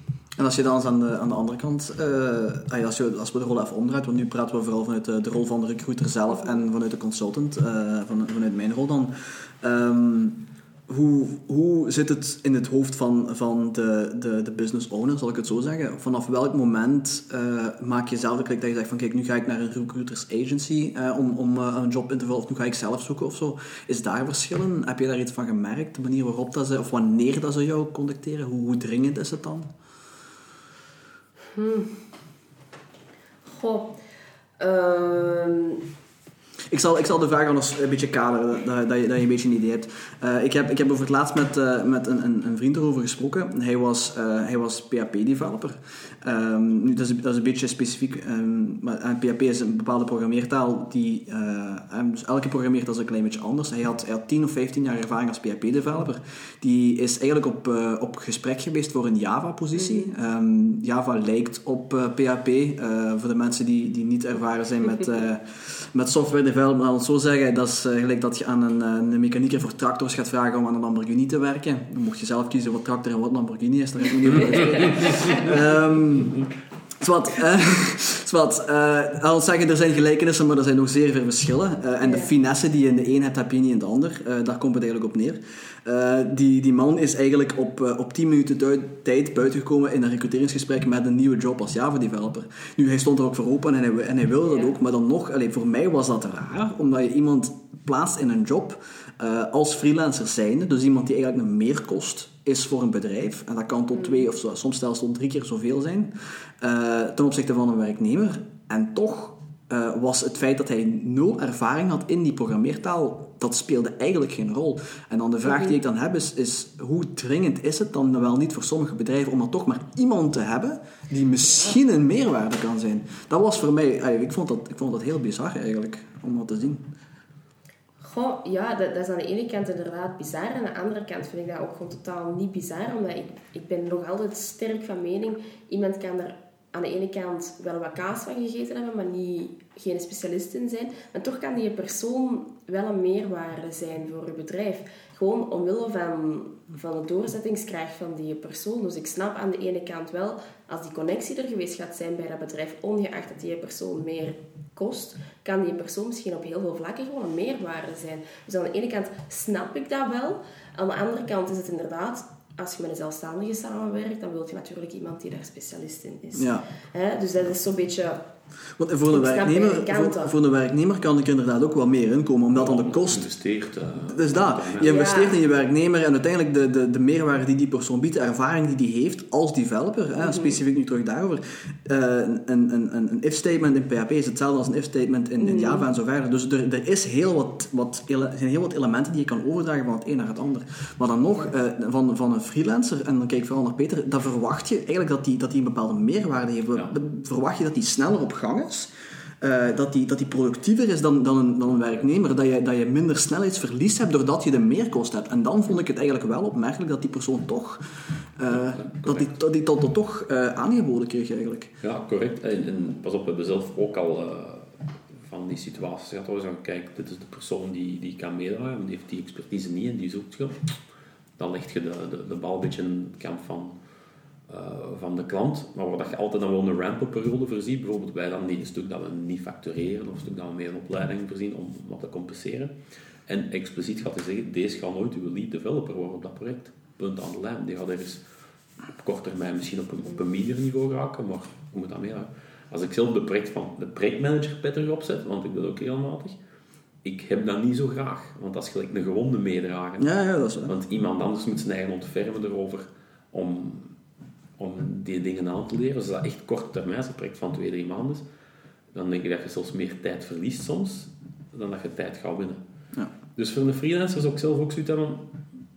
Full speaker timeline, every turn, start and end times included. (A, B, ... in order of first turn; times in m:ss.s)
0:00.4-0:29.7 A
0:31.5-0:32.0 B
0:33.5-0:34.0 B
0:34.6-0:35.8 B
0:36.7-1:16.4 A
0:59.8-1:00.1 B
1:14.3-1:15.4 C
1:14.5-1:15.5 B
1:17.0-2:06.8 A
1:22.0-1:22.3 B
1:34.5-1:34.8 B
1:44.0-1:44.3 B
1:55.5-1:55.7 B
2:01.5-2:01.7 B
2:08.0-2:48.2 B
2:46.4-2:46.7 A
2:48.8-2:53.3 A
2:49.1-2:50.3 B
2:52.5-2:55.0 C
2:54.0-3:31.7 A
2:54.8-2:55.4 B
3:00.2-3:00.6 B
3:05.4-3:05.8 B
3:28.5-3:29.3 C
3:31.8-3:40.7 C
3:41.4-3:43.8 C
3:44.5-3:52.7 C
3:53.3-3:58.2 C
3:59.0-4:06.4 C
4:07.0-4:10.1 C
4:10.0-4:10.8 A
4:10.6-4:14.0 C
4:14.6-4:18.2 C
4:18.9-4:22.6 C
4:23.4-4:25.4 C